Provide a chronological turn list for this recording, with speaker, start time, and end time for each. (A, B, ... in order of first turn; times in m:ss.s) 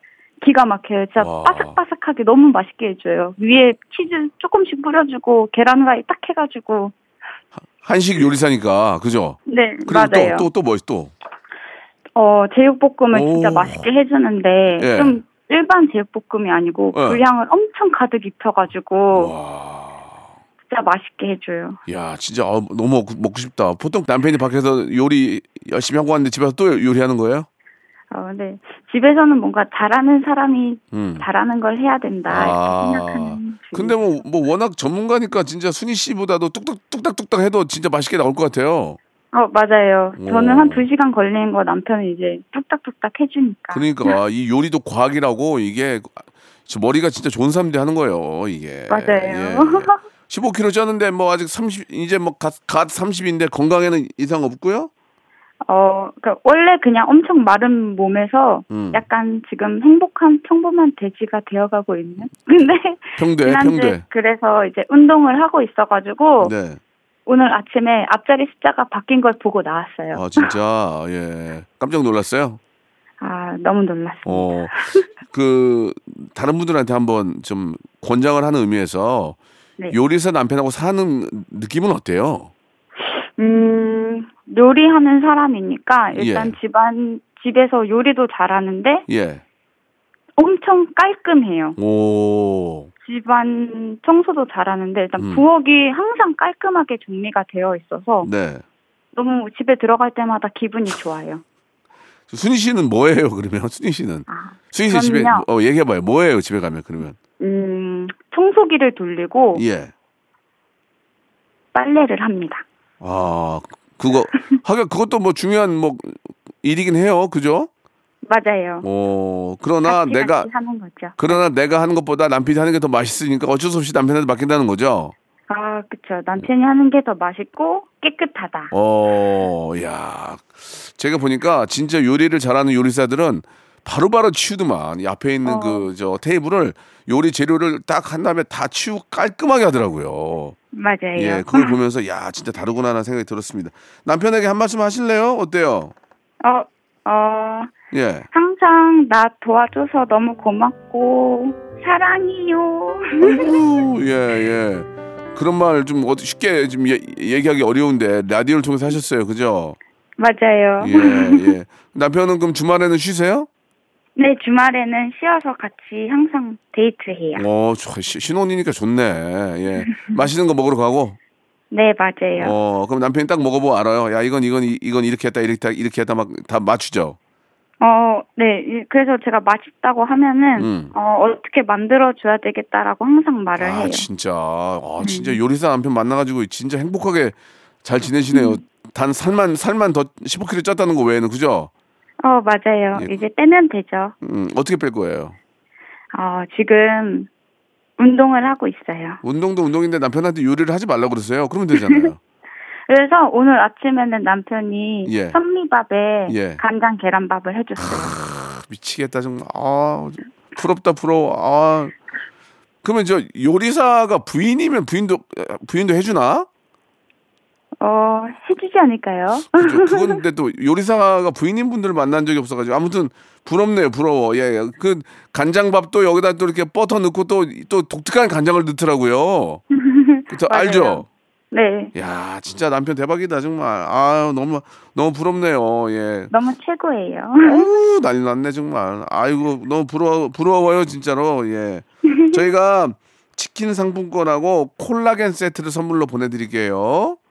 0:00.4-0:06.9 A
0:01.2-0:01.8 B
0:07.8-0:11.1 B
0:09.5-0:10.5 A
0:12.2-0:19.3 A
0:13.1-0:13.8 B
0:14.8-0:15.2 B
0:16.9-0:17.2 B
0:19.1-0:20.2 B
0:20.7-0:21.8 A
0:21.9-0:27.5 B
0:28.1-0:34.0 A
0:30.9-0:31.3 B
0:32.3-0:39.0 B
0:39.3-0:44.2 A
0:40.2-0:40.8 B
0:43.7-0:54.9 B
0:48.9-0:50.0 A
0:55.7-1:06.5 A
0:58.7-0:59.0 B
1:03.2-1:04.0 B
1:06.4-1:06.8 B
1:07.3-1:10.5 A
1:10.1-1:12.6 B
1:13.2-1:15.1 A
1:14.2-1:14.8 B
1:15.3-1:19.4 B
1:19.9-1:22.5 B
1:23.0-1:29.1 A
1:26.1-1:26.6 B
1:29.1-1:29.4 B
1:30.4-1:31.8 A
1:31.8-1:32.9 B
1:33.0-1:38.3 A
1:35.2-1:35.5 B
1:38.2-1:38.6 B
1:39.1-1:41.4 A
1:42.3-1:47.2 B
1:44.3-1:45.5 A
1:47.4-1:49.6 A
1:49.5-1:49.9 B
1:51.7-1:52.6 A
1:53.0-1:57.7 B
1:58.2-1:58.9 A
1:58.8-2:00.5 B
1:59.8-2:01.4 A
2:01.2-2:05.1 B
2:05.5-2:08.7 A
2:08.7-2:20.6 B
2:15.4-2:15.9 A
2:20.7-2:21.8 A
2:21.2-2:25.9 B
2:26.4-2:27.7 A
2:27.9-2:28.3 B
2:28.3-2:33.6 A
2:33.2-2:39.8 B
2:40.2-2:41.5 A
2:40.8-2:43.5 B
2:44.2-2:47.4 A
2:47.4-2:51.2 B
2:49.8-2:50.2 A
2:51.7-2:52.6 A
2:52.4-2:57.2 B
2:57.8-3:04.1 A
3:00.6-3:00.9 B
3:03.6-3:11.7 B
3:05.0-3:05.4 A
3:08.3-3:08.6 A
3:12.2-3:14.1 A
3:14.2-3:15.4 B
3:16.1-3:17.3 A
3:18.0-3:19.2 A
3:19.2-3:22.2 B
3:21.8-3:22.1 A
3:22.9-3:28.2 A
3:25.0-3:25.4 B
3:26.3-3:26.6 B
3:27.8-3:31.9 B
3:32.8-3:36.5 B
3:37.8-3:40.2 A
3:39.5-3:49.6 B
3:49.7-3:51.9 A
3:50.3-3:51.1 B
3:51.9-3:56.3 B
3:56.3-3:57.7 A
3:57.4-4:07.2 B
4:02.1-4:02.4 A